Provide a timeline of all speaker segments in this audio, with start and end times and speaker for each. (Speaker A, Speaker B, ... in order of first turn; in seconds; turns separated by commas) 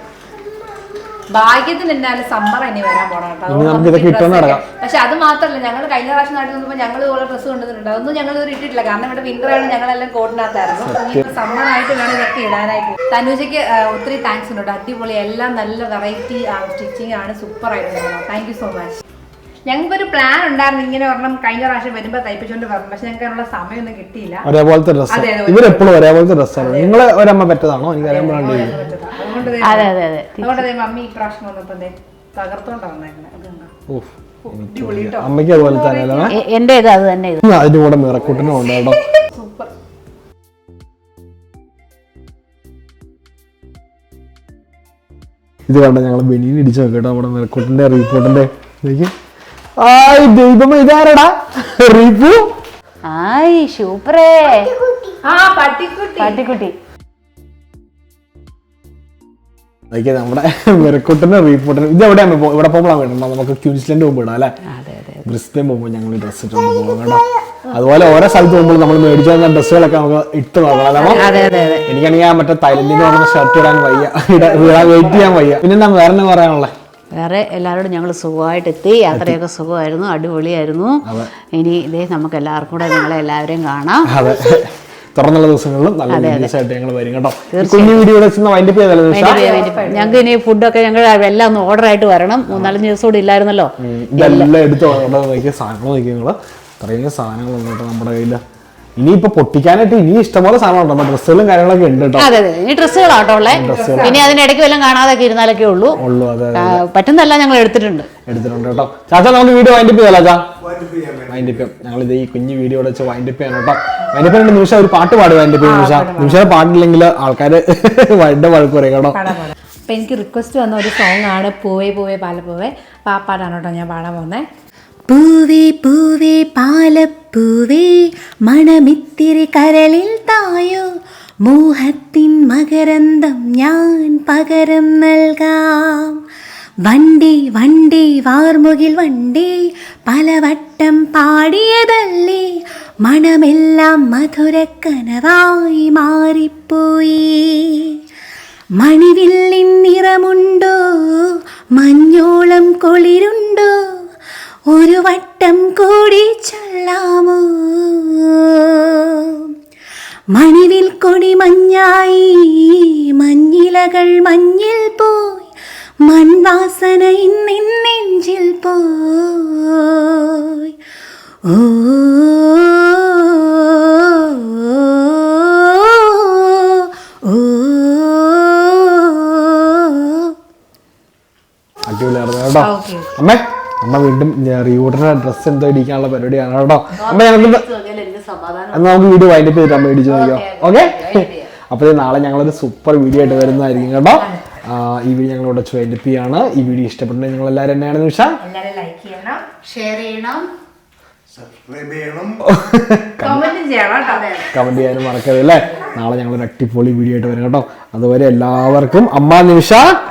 Speaker A: 1.3-19.0, Speaker B: 3.5-4.6, Speaker B: 10.8-11.3, Speaker A: 19.7-24.5, Speaker B: 24.4-28.8, Speaker A: 25.1-25.9, Speaker A: 26.6-27.0, Speaker A: 28.0-33.7, Speaker C: 29.6-30.6, Speaker B: 33.9-36.4, Speaker A: 34.5-36.4, Speaker C: 36.3-37.4, Speaker B: 37.4-39.0, Speaker A: 38.4-39.7, Speaker B: 45.7-49.1, Speaker B: 49.8-52.5, Speaker C: 53.0-54.7, Speaker D: 54.5-55.2, Speaker A: 55.2-56.4, Speaker C: 56.2-56.7, Speaker B: 59.9-64.5, Speaker C: 64.7-65.3, Speaker B: 65.3-76.8, Speaker A: 71.0-71.9, Speaker C: 71.0-71.9, Speaker A: 74.4-75.4, Speaker C: 77.2-84.1, Speaker B: 79.1-79.4, Speaker B: 81.0-81.3, Speaker B: 84.1-89.4, Speaker C: 86.1-86.5, Speaker C: 87.5-88.1, Speaker C: 89.1-94.5, Speaker A: 89.2-90.3, Speaker B: 92.5-92.8, Speaker B: 93.8-98.4, Speaker B: 99.0-102.3, Speaker C: 102.2-106.0, Speaker A: 103.5-104.3, Speaker B: 103.5-104.3, Speaker B: 106.0-106.8, Speaker C: 106.5-108.1, Speaker B: 108.3-110.5, Speaker E: 110.6-111.7, Speaker B: 111.3-119.4, Speaker A: 115.6-116.6, Speaker A: 119.1-124.5, Speaker D: 125.1-127.9, Speaker D: 128.6-128.9, Speaker D: 129.5-130.8, Speaker D: 131.7-136.2, Speaker D: 136.9-142.5, Speaker D: 143.0-148.0, Speaker D: 148.8-154.0, Speaker D: 154.7-159.5, Speaker D: 160.3-165.4, Speaker D: 166.0-170.7, Speaker D: 171.4-180.3, Speaker B: 181.9-187.7, Speaker A: 182.6-183.1, Speaker C: 187.0-189.0, Speaker B: 188.7-198.4, Speaker C: 190.1-191.5, Speaker A: 194.1-194.6, Speaker A: 198.4-199.4, Speaker C: 199.6-200.5, Speaker E: 201.3-202.4, Speaker B: 202.4-203.5, Speaker A: 203.2-204.3, Speaker C: 204.0-204.5, Speaker B: 204.5-210.0